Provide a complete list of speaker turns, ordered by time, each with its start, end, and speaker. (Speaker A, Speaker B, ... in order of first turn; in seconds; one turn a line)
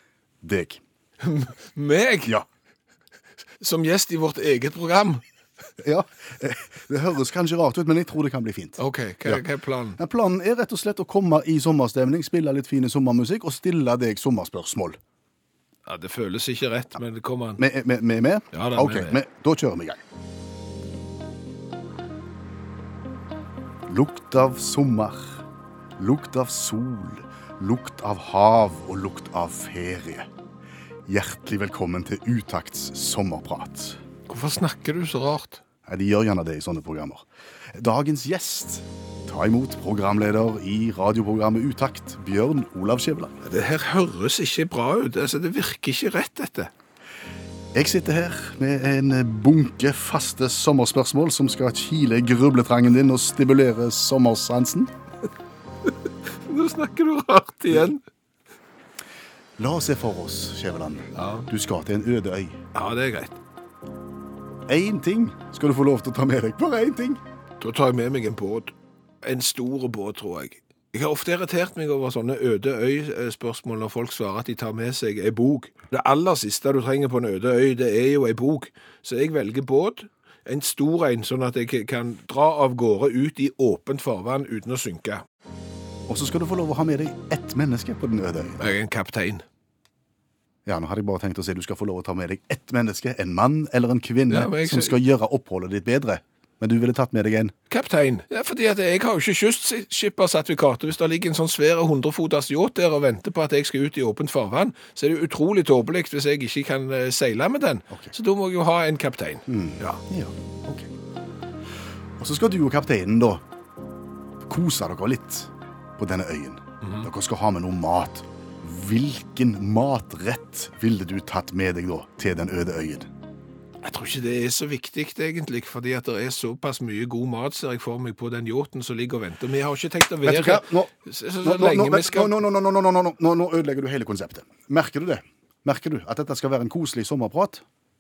Speaker A: 0.4-0.8
Speaker B: 1.2-2.4
Speaker B: 3.6-5.2
Speaker A: 5.8-9.4
Speaker B: 8.8-10.0
Speaker A: 10.0-15.0
Speaker B: 15.9-17.6
Speaker A: 17.6-20.0
Speaker B: 18.5-19.2
Speaker A: 23.9-25.4
Speaker A: 26.0-30.3
Speaker A: 31.1-34.0
Speaker B: 34.3-35.6
Speaker A: 35.9-43.3
Speaker B: 43.4-46.7
Speaker A: 47.7-54.9
Speaker B: 56.3-58.0
Speaker A: 59.6-62.6
Speaker B: 61.2-61.5
Speaker B: 62.7-63.4
Speaker A: 64.7-67.2
Speaker B: 67.6-85.2
Speaker A: 86.1-88.6
Speaker B: 88.6-89.4
Speaker A: 90.7-97.5
Speaker B: 94.3-95.0
Speaker B: 97.7-110.0
Speaker A: 109.5-110.9
Speaker A: 112.2-113.4
Speaker A: 114.5-123.1
Speaker B: 116.8-117.1
Speaker B: 123.8-132.4
Speaker A: 130.2-130.9
Speaker A: 131.4-137.6